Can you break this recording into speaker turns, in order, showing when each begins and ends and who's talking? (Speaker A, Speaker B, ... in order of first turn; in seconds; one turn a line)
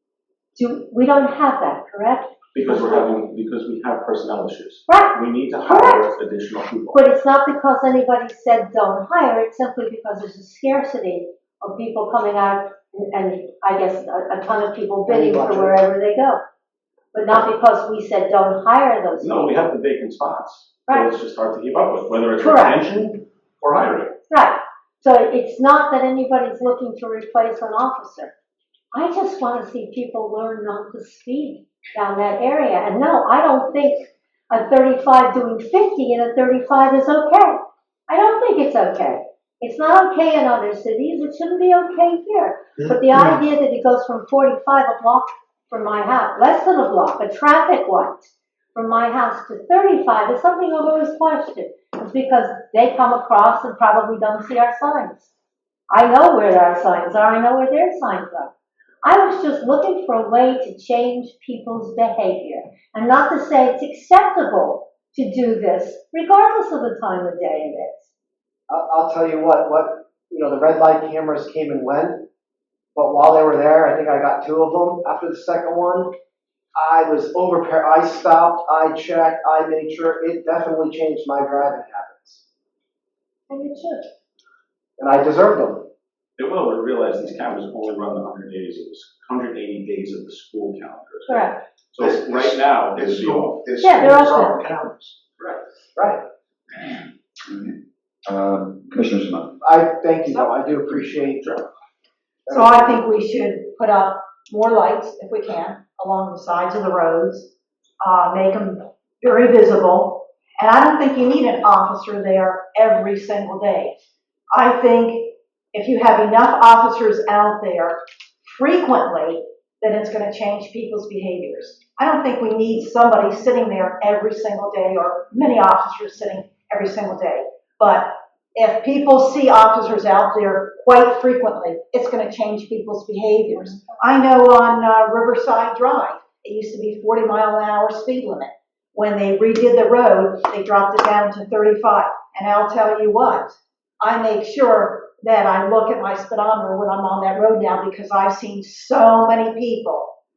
Speaker A: 0.6-3.0
Speaker B: 2.5-7.0
Speaker A: 4.9-6.0
Speaker A: 6.9-16.4
Speaker C: 15.1-15.8
Speaker A: 17.1-19.6
Speaker B: 19.2-24.2
Speaker A: 22.4-22.8
Speaker A: 24.3-28.3
Speaker A: 28.9-55.3
Speaker A: 55.9-68.1
Speaker C: 68.7-72.3
Speaker C: 72.9-76.1
Speaker C: 76.8-82.4
Speaker A: 83.5-84.0
Speaker C: 85.0-85.9
Speaker B: 86.4-93.7
Speaker A: 91.3-91.6
Speaker D: 92.0-95.2
Speaker A: 93.8-94.6
Speaker C: 95.9-96.2
Speaker E: 96.9-99.5
Speaker C: 99.6-101.6
Speaker C: 102.5-103.0
Speaker F: 102.5-114.0
Speaker F: 114.5-150.1